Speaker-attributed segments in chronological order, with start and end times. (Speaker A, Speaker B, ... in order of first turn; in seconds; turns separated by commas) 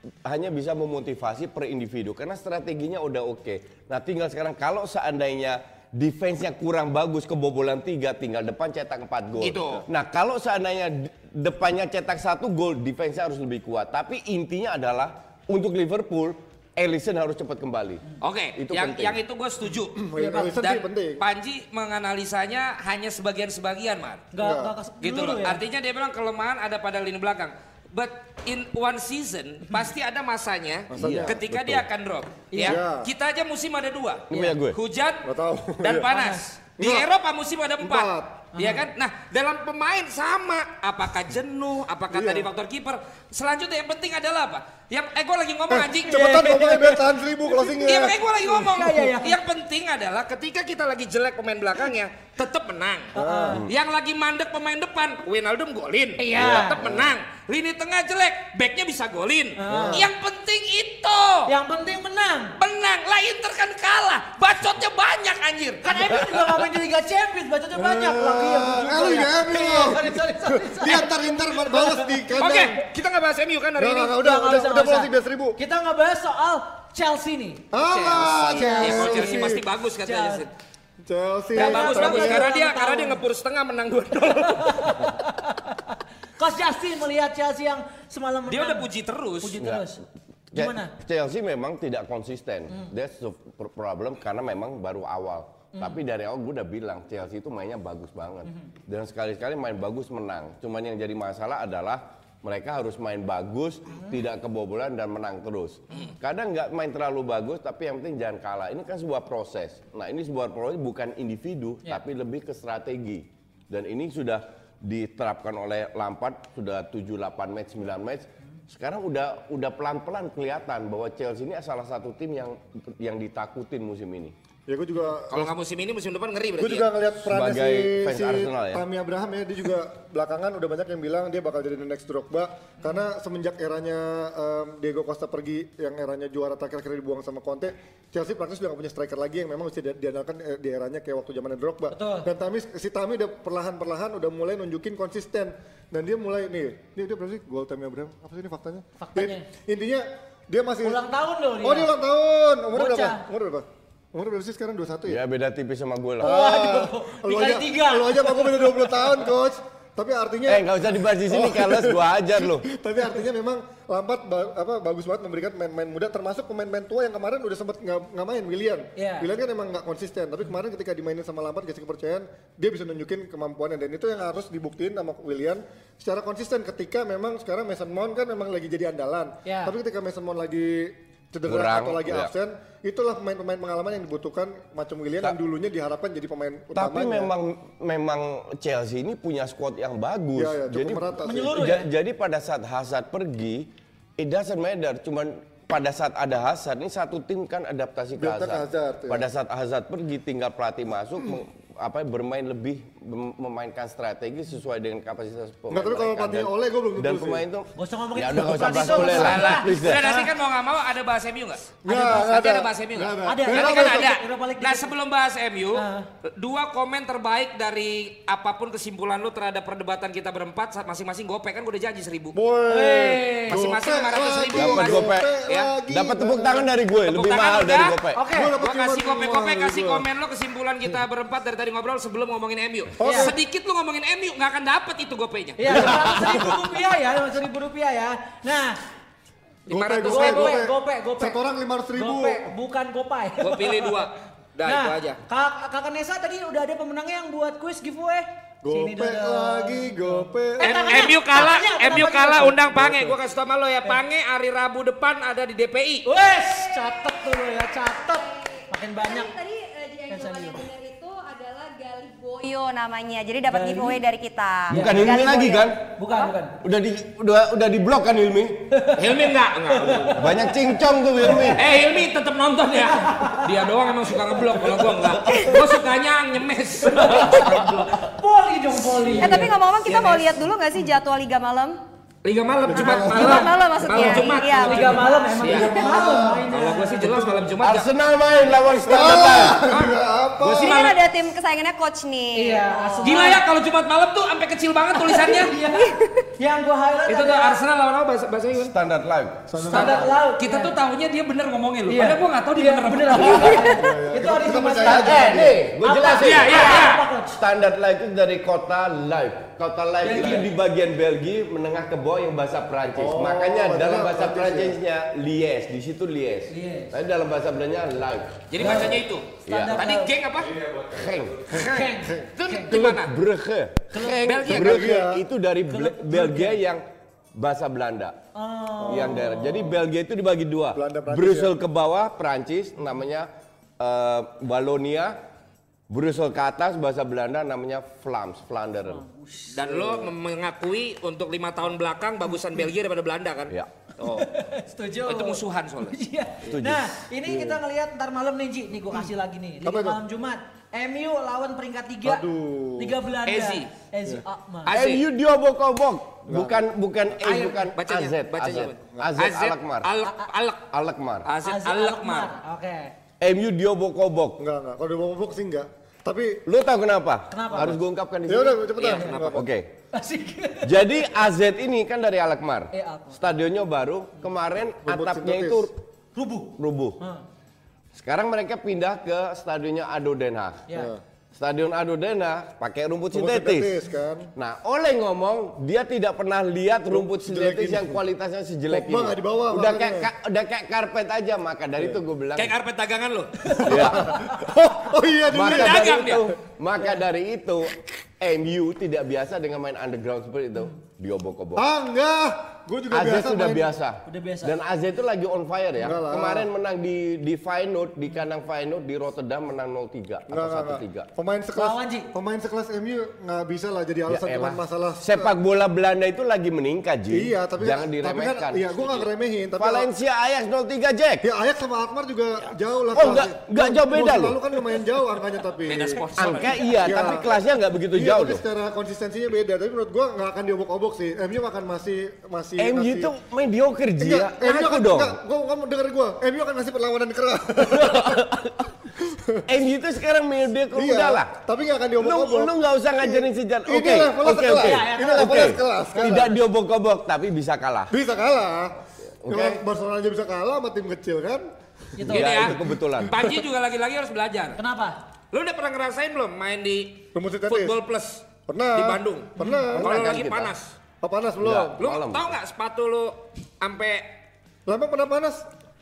Speaker A: 0.2-19.2, Speaker B: 9.4-9.8, Speaker B: 18.2-24.3, Speaker C: 19.9-21.2, Speaker D: 20.1-20.6, Speaker D: 24.3-25.6, Speaker C: 24.4-24.7, Speaker B: 25.0-35.2, Speaker C: 30.9-31.4, Speaker A: 30.9-31.9, Speaker D: 32.5-32.8, Speaker C: 32.6-33.1, Speaker A: 34.3-34.8, Speaker C: 35.2-36.1, Speaker B: 35.8-46.7, Speaker D: 36.1-36.4, Speaker C: 36.8-37.1, Speaker C: 37.8-38.4, Speaker D: 38.5-38.9, Speaker C: 42.1-42.5, Speaker C: 45.7-48.2, Speaker D: 46.1-47.0, Speaker B: 47.7-53.1, Speaker D: 48.4-49.4, Speaker D: 53.1-53.6, Speaker C: 53.1-53.6, Speaker B: 53.7-61.5, Speaker D: 56.2-56.8, Speaker A: 56.4-56.6, Speaker D: 59.6-60.1, Speaker C: 59.7-60.0, Speaker D: 61.5-62.5, Speaker B: 62.6-66.2, Speaker D: 65.8-72.2, Speaker C: 67.8-72.8, Speaker B: 72.4-74.2, Speaker C: 73.8-75.6, Speaker D: 74.2-77.7, Speaker C: 77.7-79.6, Speaker B: 77.8-80.5, Speaker D: 78.5-79.5, Speaker D: 80.0-80.5, Speaker C: 81.1-82.5, Speaker D: 81.5-83.2, Speaker B: 81.5-85.0, Speaker D: 84.5-88.8, Speaker B: 88.5-89.6, Speaker D: 89.4-90.0, Speaker A: 89.6-89.9, Speaker A: 90.5-124.3, Speaker D: 90.5-90.9, Speaker D: 95.7-96.0, Speaker C: 124.7-125.5, Speaker B: 125.0-126.9, Speaker C: 126.6-151.0, Speaker A: 127.2-128.8, Speaker D: 141.9-142.3, Speaker D: 149.0-149.4, Speaker D: 150.8-151.9, Speaker C: 151.6-155.2, Speaker D: 152.7-153.2, Speaker A: 155.0-156.3, Speaker C: 156.2-187.3, Speaker D: 156.2-158.9, Speaker A: 160.4-162.7, Speaker D: 168.9-169.3, Speaker D: 179.4-179.7, Speaker A: 181.4-182.3, Speaker A: 186.7-210.0, Speaker C: 190.3-191.6, Speaker D: 191.2-191.9, Speaker C: 198.2-199.2, Speaker C: 205.7-207.4, Speaker D: 207.8-210.3, Speaker B: 208.9-222.3, Speaker C: 211.8-214.1, Speaker D: 213.2-214.9, Speaker D: 215.7-216.1, Speaker C: 222.3-226.7, Speaker D: 222.7-223.7, Speaker B: 223.4-225.7, Speaker A: 224.5-225.3, Speaker A: 225.9-228.2, Speaker B: 226.9-228.0, Speaker D: 228.1-228.5, Speaker C: 228.3-230.0, Speaker B: 228.6-236.3, Speaker D: 233.0-233.3, Speaker C: 233.0-233.3, Speaker D: 235.6-238.8, Speaker A: 235.7-236.4, Speaker C: 239.7-242.5, Speaker B: 239.7-240.6, Speaker D: 240.0-241.4, Speaker D: 241.9-244.0, Speaker B: 243.4-245.2, Speaker D: 244.6-252.6, Speaker C: 248.6-251.0, Speaker B: 250.6-256.1, Speaker C: 252.6-253.1, Speaker D: 256.0-259.3, Speaker E: 256.3-266.3, Speaker D: 260.1-260.7, Speaker D: 263.5-264.0, Speaker A: 264.7-265.8, Speaker D: 264.7-265.2, Speaker D: 266.0-266.6, Speaker A: 266.6-268.9, Speaker D: 268.7-269.2, Speaker B: 268.9-270.3, Speaker D: 269.7-270.2, Speaker A: 270.1-271.6, Speaker D: 271.2-271.6, Speaker B: 271.5-278.0, Speaker D: 272.9-273.4, Speaker D: 276.8-279.5, Speaker E: 279.2-281.8, Speaker B: 279.9-280.4, Speaker B: 282.2-287.9, Speaker C: 282.7-284.3, Speaker E: 282.7-285.0, Speaker D: 284.6-287.3, Speaker C: 285.4-286.4, Speaker C: 287.0-287.4, Speaker A: 287.6-289.6, Speaker C: 288.8-290.8, Speaker B: 289.1-291.0, Speaker E: 290.6-293.2, Speaker D: 292.3-293.4, Speaker B: 293.0-295.6, Speaker D: 295.1-297.6, Speaker E: 295.7-296.3, Speaker B: 297.1-298.7, Speaker A: 298.5-299.9, Speaker C: 299.5-300.1, Speaker D: 299.6-300.7, Speaker B: 299.7-303.8, Speaker D: 301.9-307.4, Speaker C: 303.2-305.6, Speaker A: 304.8-318.8, Speaker B: 306.0-307.0, Speaker D: 310.0-310.5, Speaker C: 312.9-314.8, Speaker D: 316.5-316.9, Speaker B: 318.5-320.6, Speaker D: 318.6-320.1, Speaker A: 319.5-319.8, Speaker A: 320.4-321.6, Speaker B: 321.5-323.1, Speaker C: 321.5-322.3, Speaker D: 321.6-322.8, Speaker A: 322.7-326.8, Speaker D: 323.9-324.2, Speaker B: 324.2-324.9, Speaker C: 324.5-325.2, Speaker D: 325.7-326.6, Speaker A: 327.3-328.1, Speaker D: 328.4-329.4, Speaker C: 328.8-329.8, Speaker A: 328.9-335.2, Speaker C: 330.7-331.5, Speaker A: 335.9-339.0, Speaker D: 338.9-339.5, Speaker B: 339.5-344.3, Speaker C: 339.6-340.1, Speaker D: 344.0-352.2, Speaker B: 345.0-346.5, Speaker A: 346.5-346.9, Speaker C: 347.2-347.6, Speaker C: 349.6-350.0, Speaker C: 352.0-352.9, Speaker D: 352.8-354.7, Speaker B: 353.2-353.7, Speaker B: 354.6-355.0, Speaker A: 354.7-359.9, Speaker C: 356.3-356.6, Speaker D: 357.2-357.7, Speaker B: 357.8-360.7, Speaker D: 360.0-360.3, Speaker A: 360.7-361.3, Speaker B: 361.2-362.3, Speaker D: 361.4-362.9, Speaker A: 363.2-364.4, Speaker C: 364.4-366.4, Speaker A: 366.4-368.7, Speaker D: 367.3-367.8, Speaker C: 368.3-369.5, Speaker B: 368.8-369.4, Speaker A: 369.3-369.7, Speaker D: 369.9-370.8, Speaker A: 370.6-375.7, Speaker D: 372.7-373.2, Speaker C: 374.8-375.7, Speaker D: 376.1-377.2, Speaker A: 376.6-377.0, Speaker A: 377.9-380.7, Speaker C: 380.7-381.0, Speaker A: 381.3-383.7, Speaker C: 383.1-384.3, Speaker A: 384.4-392.5, Speaker C: 386.9-388.0, Speaker C: 388.7-390.1, Speaker B: 392.4-393.8, Speaker A: 393.6-394.2, Speaker C: 393.6-396.0, Speaker A: 395.3-401.6, Speaker B: 395.3-396.3, Speaker C: 401.6-403.7, Speaker A: 402.9-411.1, Speaker D: 404.1-404.5, Speaker C: 405.8-406.5, Speaker C: 410.3-415.3, Speaker D: 411.5-412.1, Speaker A: 414.1-421.2, Speaker C: 417.1-419.9, Speaker C: 421.2-426.0, Speaker A: 422.9-424.4, Speaker B: 425.6-427.2, Speaker A: 426.2-428.4, Speaker C: 426.8-427.3, Speaker C: 427.9-433.1, Speaker A: 432.6-435.2, Speaker C: 434.0-438.2, Speaker A: 437.7-438.7, Speaker C: 439.0-439.4, Speaker A: 439.5-441.3, Speaker C: 440.7-446.3, Speaker A: 442.0-447.9, Speaker D: 444.5-445.5, Speaker C: 447.9-451.5, Speaker A: 449.0-449.6, Speaker D: 451.9-452.4, Speaker A: 452.0-453.1, Speaker B: 452.1-454.6, Speaker D: 454.6-455.0, Speaker B: 455.3-460.7, Speaker C: 457.1-457.7, Speaker C: 458.5-459.9, Speaker D: 459.4-459.7, Speaker A: 459.8-460.5, Speaker C: 461.0-461.8, Speaker A: 461.4-462.4, Speaker B: 461.8-464.1, Speaker C: 464.7-465.5